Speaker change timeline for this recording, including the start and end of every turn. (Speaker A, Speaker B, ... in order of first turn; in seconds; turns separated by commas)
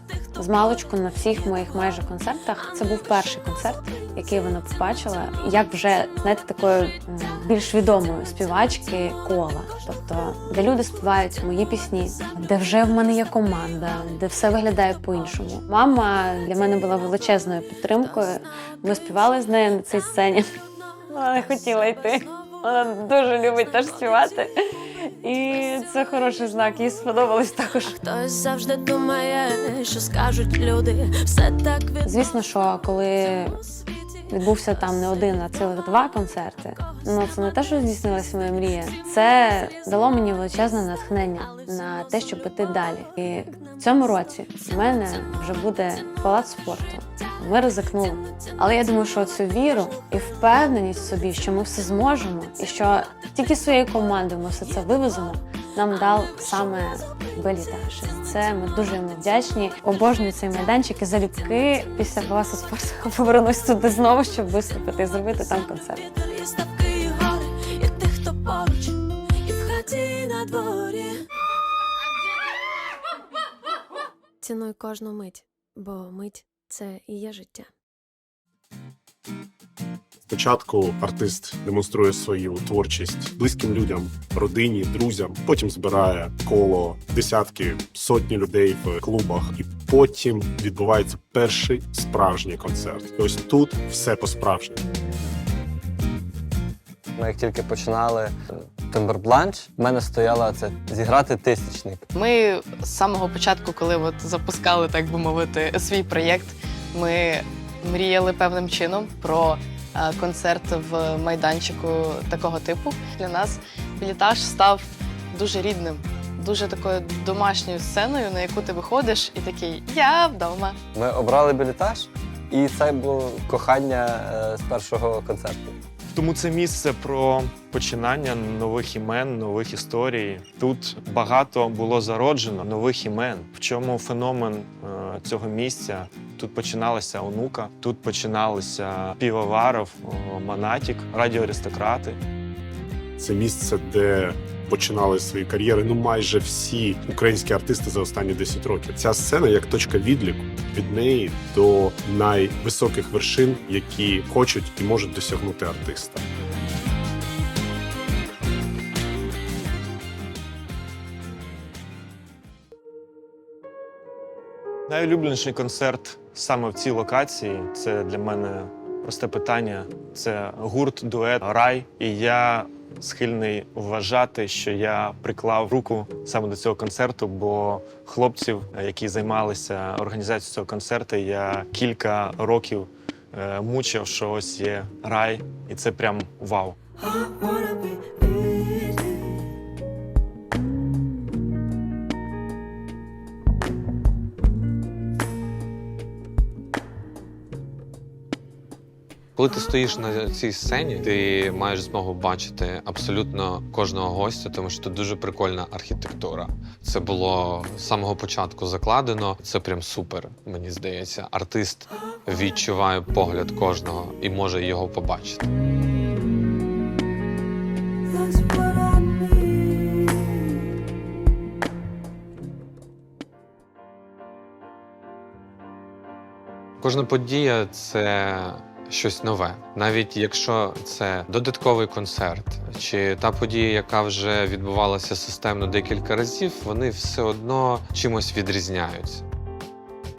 Speaker A: 0.3-20.6, Speaker B: 3.0-4.0, Speaker B: 11.2-11.9, Speaker B: 12.6-13.3, Speaker B: 17.8-20.1, Speaker A: 21.1-24.6, Speaker B: 21.3-24.4, Speaker A: 25.2-27.9, Speaker B: 25.3-26.6, Speaker B: 27.9-32.4, Speaker A: 32.0-33.6, Speaker A: 34.3-66.0, Speaker B: 34.5-36.0, Speaker B: 36.5-41.3, Speaker B: 41.9-42.8, Speaker B: 43.6-44.6, Speaker B: 48.4-49.5, Speaker B: 50.3-51.2, Speaker B: 55.9-59.2, Speaker B: 66.0-71.2, Speaker B: 74.4-77.7, Speaker C: 80.3-94.8, Speaker D: 97.2-102.0, Speaker E: 102.1-120.8, Speaker D: 120.9-125.8, Speaker F: 126.1-142.2, Speaker C: 143.2-156.2, Speaker F: 164.9-186.8, Speaker B: 187.0-189.1, Speaker G: 199.3-215.4, Speaker B: 218.1-220.2, Speaker G: 226.8-239.2